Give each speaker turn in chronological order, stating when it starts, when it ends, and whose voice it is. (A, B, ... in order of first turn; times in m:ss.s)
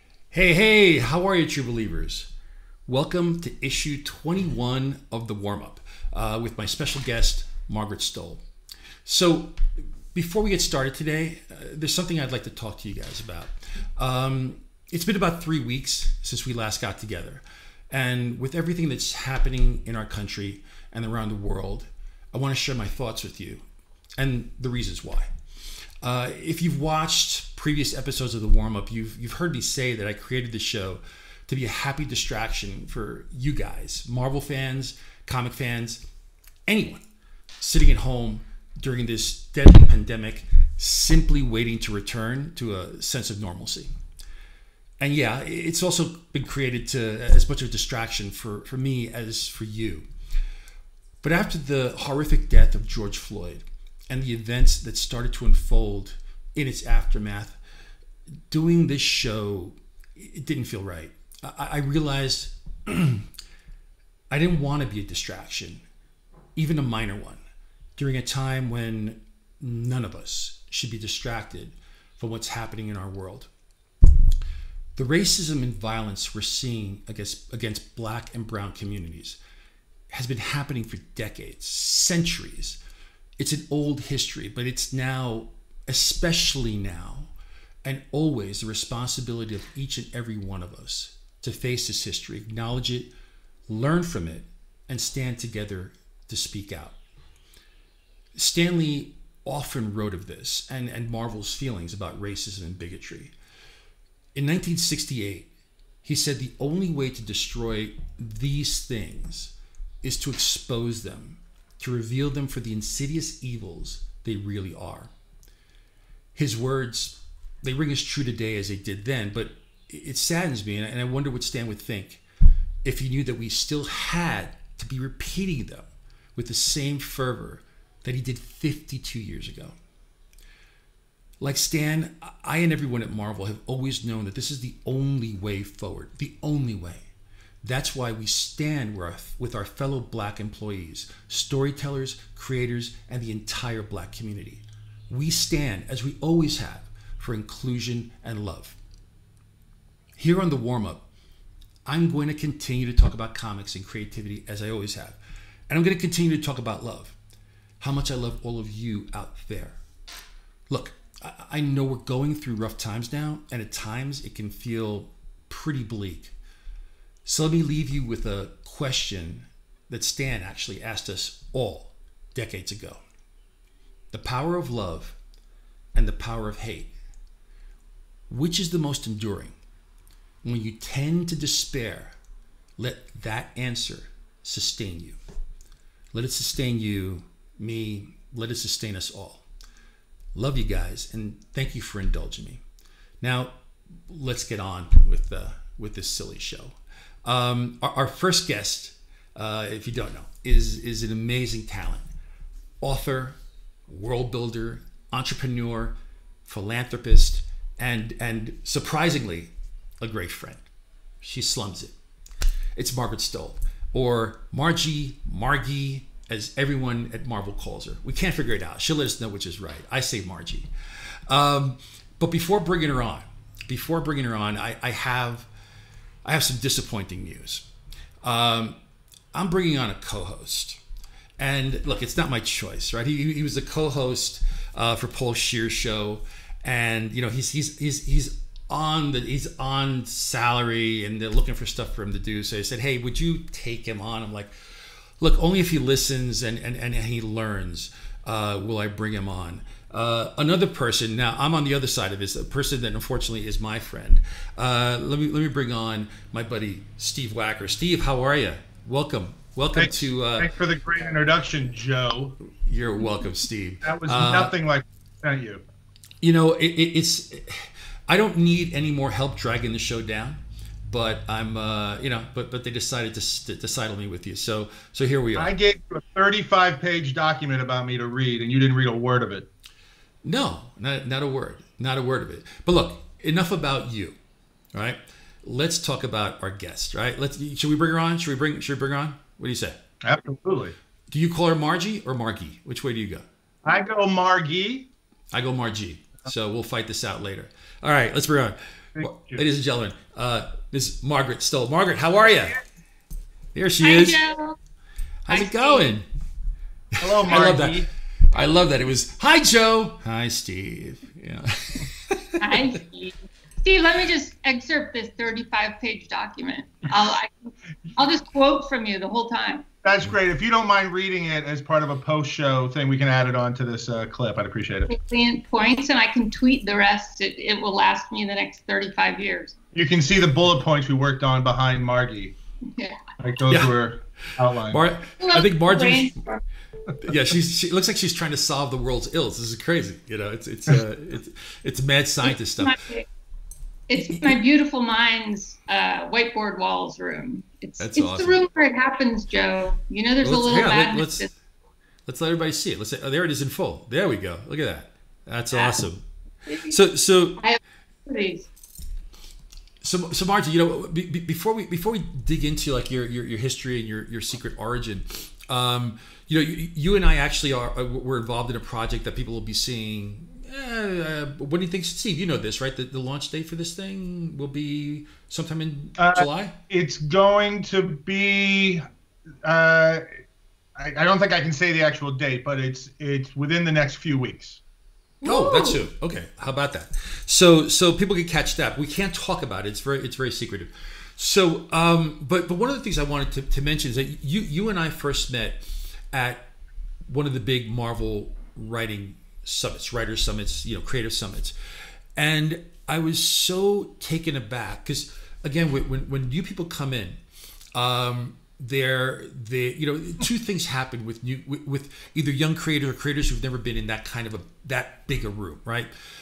0:00.3-0:02.3 A
0:02.8-0:08.4 A
0:09.0-0:23.6 A
0:24.2-0:25.3 A
0:26.0-0:36.0 A
0:36.7-0:37.0 A
0:37.6-0:43.9 A
0:45.0-0:50.0 A
0:51.2-0:57.6 A
0:58.5-1:03.3 A
1:04.3-1:05.8 A
1:06.6-1:07.4 A
1:08.0-1:13.5 A
1:15.0-1:19.4 A
1:20.1-1:22.8 A
1:23.4-1:27.3 A
1:27.8-1:33.1 A
1:33.7-1:37.0 A
1:38.3-1:43.3 A
1:44.3-1:45.5 A
1:46.0-1:55.1 A
1:56.3-2:02.2 A
2:02.8-2:09.7 A
2:11.4-2:17.1 A
2:17.6-2:28.8 A
2:30.2-2:31.0 A
2:31.8-2:37.2 A
2:37.8-2:39.8 A
2:40.7-2:46.3 A
2:47.2-2:53.0 A
2:54.1-2:55.2 A
2:55.9-2:56.9 A
2:58.3-2:59.5 A
3:00.4-3:02.1 A
3:02.8-3:05.2 A
3:06.1-3:09.4 A
3:10.3-3:12.6 A
3:13.2-3:13.5 A
3:14.1-3:22.1 A
3:22.8-3:30.6 A
3:31.2-3:31.9 A
3:32.7-3:45.5 A
3:46.2-3:47.6 A
3:48.2-3:48.8 A
3:49.3-3:50.8 A
3:51.4-4:20.5 A
4:19.8-4:22.4 B
4:22.4-4:24.5 A
4:23.8-4:25.6 B
4:26.2-4:35.5 A
4:35.4-4:39.5 B
4:40.2-4:44.2 A
4:44.7-4:49.8 A
4:50.0-4:50.7 B
4:51.1-4:53.2 A
4:53.6-4:54.9 B
4:55.3-5:02.6 A
4:59.0-4:59.4 B
5:03.5-5:04.2 A
5:03.8-5:04.6 C
5:05.2-5:06.0 A
5:05.3-5:05.9 C
5:07.0-5:12.6 A
5:07.0-5:07.8 B
5:12.4-5:19.7 C
5:19.8-5:24.9 B
5:24.9-5:29.5 C
5:29.7-5:32.3 B
5:33.2-5:34.8 B
5:33.5-5:33.8 A
5:34.6-5:36.2 A
5:35.2-5:36.4 C
5:37.0-5:42.8 A
5:42.2-5:43.1 C
5:43.9-5:51.3 C
5:44.0-5:44.3 A
5:47.8-5:48.4 A
5:50.2-5:51.3 A
5:52.0-5:56.0 A
5:55.5-5:55.8 C
5:56.5-5:56.8 C
5:56.6-5:57.4 A
5:57.4-5:58.5 C
5:59.8-6:16.6 A
6:16.0-6:18.8 B
6:19.4-6:20.0 B
6:20.8-6:24.6 B
6:25.2-6:25.8 C
6:25.2-6:36.5 A
6:37.1-6:41.5 A
6:42.2-6:47.2 A
6:47.7-6:55.9 A